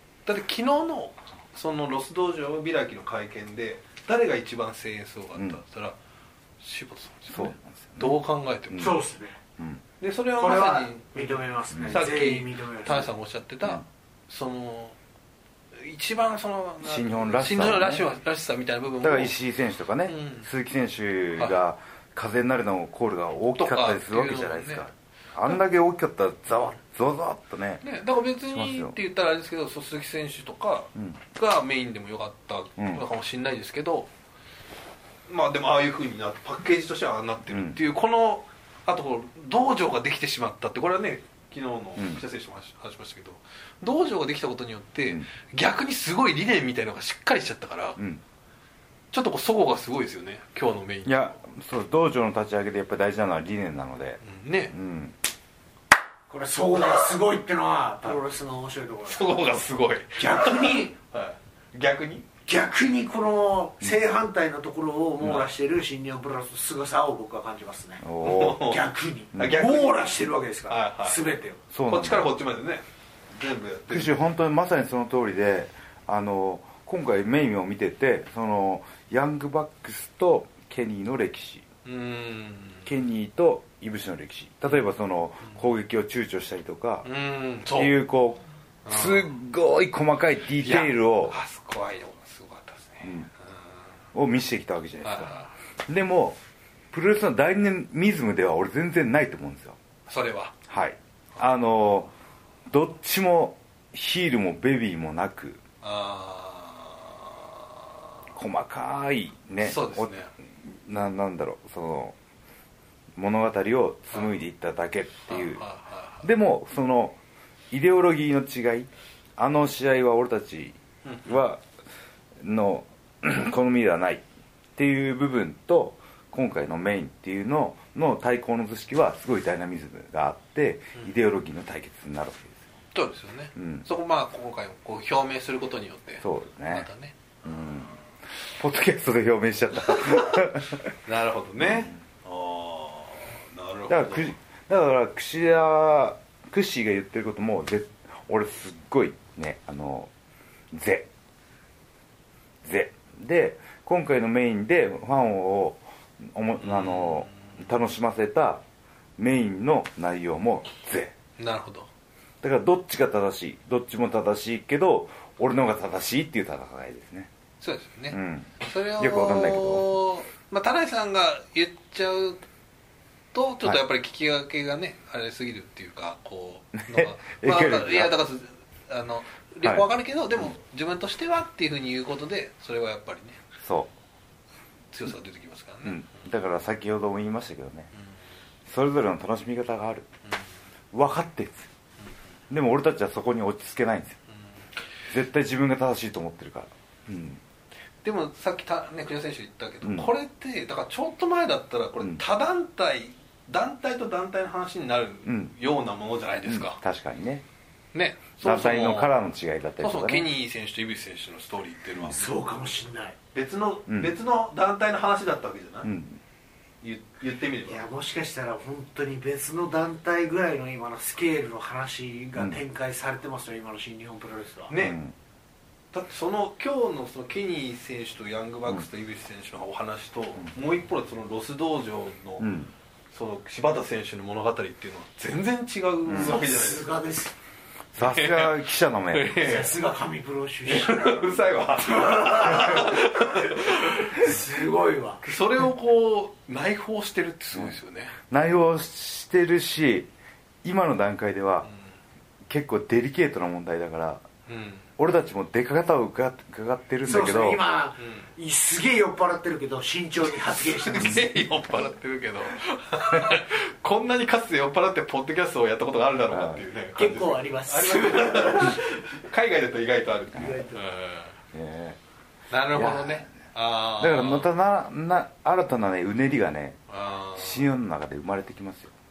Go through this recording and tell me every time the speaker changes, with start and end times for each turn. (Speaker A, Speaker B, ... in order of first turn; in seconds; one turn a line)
Speaker A: 0.3-6.0
Speaker A: 6.6-9.0
Speaker B: 7.3-9.0
Speaker C: 8.8-9.4
Speaker B: 9.6-9.8
Speaker A: 10.0-15.0
Speaker C: 10.4-13.1
Speaker B: 11.7-12.1
Speaker A: 15.8-19.4
Speaker B: 16.8-18.1
Speaker B: 19.0-27.8
Speaker A: 20.1-20.5
Speaker A: 23.6-24.9
Speaker A: 27.8-34.1
Speaker B: 28.5-28.9
Speaker B: 32.8-33.0
Speaker A: 35.3-48.0
Speaker B: 37.5-37.8
Speaker B: 42.0-42.2
Speaker A: 49.1-51.4
Speaker B: 51.1-55.2
Speaker A: 54.2-54.7
Speaker C: 56.3-59.4
Speaker A: 59.1-62.3
Speaker C: 60.2-61.0
Speaker C: 62.5-68.0
Speaker A: 65.2-65.5
Speaker B: 68.0-68.8
Speaker A: 68.2-70.1
Speaker C: 68.6-71.6
Speaker B: 69.3-69.6
Speaker A: 70.7-71.2
Speaker B: 71.7-72.3
Speaker A: 71.9-74.1
Speaker B: 73.9-81.7
Speaker A: 81.8-82.9
Speaker B: 82.9-87.1
Speaker A: 87.0-88.0
Speaker B: 87.7-91.4
Speaker A: 88.8-89.3
Speaker A: 90.6-93.2
Speaker B: 93.0-93.3
Speaker B: 94.1-95.3
Speaker A: 95.0-95.5
Speaker B: 95.9-96.4
Speaker B: 96.9-99.8
Speaker A: 100.1-100.5
Speaker B: 100.7-102.1
Speaker B: 102.7-105.6
Speaker A: 105.8-107.7
Speaker B: 108.3-112.2
Speaker A: 109.6-110.3
Speaker B: 113.2-115.6
Speaker A: 115.3-116.3
Speaker B: 116.2-117.2
Speaker B: 117.7-121.6
Speaker A: 121.0-121.4
Speaker B: 122.4-124.2
Speaker B: 124.8-132.7
Speaker A: 132.9-137.1
Speaker B: 133.6-133.9
Speaker B: 136.2-136.9
Speaker B: 137.4-137.9
Speaker B: 138.5-140.9
Speaker A: 139.9-140.5
Speaker A: 141.1-144.3
Speaker B: 141.6-141.9
Speaker B: 143.9-150.1
Speaker B: 150.7-151.1
Speaker B: 152.6-158.6
Speaker A: 156.6-157.3
Speaker B: 159.2-161.1
Speaker A: 161.4-161.9
Speaker B: 162.4-167.3
Speaker A: 167.6-172.4
Speaker B: 168.1-169.8
Speaker A: 173.3-183.4
Speaker B: 176.9-178.2
Speaker B: 183.6-183.9
Speaker A: 184.9-186.2
Speaker B: 185.8-187.9
Speaker B: 188.7-190.1
Speaker B: 190.9-191.7
Speaker B: 192.5-194.2
Speaker B: 195.1-197.4
Speaker A: 198.0-206.8
Speaker B: 199.8-200.1
Speaker B: 205.3-205.5
Speaker B: 206.4-207.4
Speaker A: 207.9-209.1
Speaker B: 208.4-210.3
Speaker A: 209.8-212.4
Speaker C: 212.1-213.2
Speaker A: 213.3-215.9
Speaker B: 213.9-214.1
Speaker B: 215.8-216.2
Speaker A: 216.8-217.8
Speaker C: 217.7-224.7
Speaker A: 224.7-225.0
Speaker B: 224.8-225.2
Speaker A: 225.9-232.5
Speaker B: 232.4-232.7
Speaker A: 233.1-236.9
Speaker B: 236.1-236.4
Speaker C: 236.2-237.4
Speaker B: 237.9-239.6
Speaker A: 238.0-238.6
Speaker A: 239.1-239.8
Speaker C: 239.4-245.2
Speaker A: 240.7-244.2
Speaker A: 245.2-248.2
Speaker B: 248.3-250.1
Speaker B: 250.6-251.7
Speaker B: 252.5-254.2
Speaker A: 254.5-254.9
Speaker B: 255.0-257.6
Speaker C: 257.1-261.3
Speaker A: 258.0-258.3
Speaker A: 260.5-271.4
Speaker B: 266.3-266.6
Speaker C: 267.0-268.8
Speaker C: 270.4-270.9
Speaker B: 271.5-272.0
Speaker A: 272.5-274.5
Speaker B: 272.7-273.4
Speaker B: 274.0-276.8
Speaker A: 276.9-277.7
Speaker B: 277.4-278.9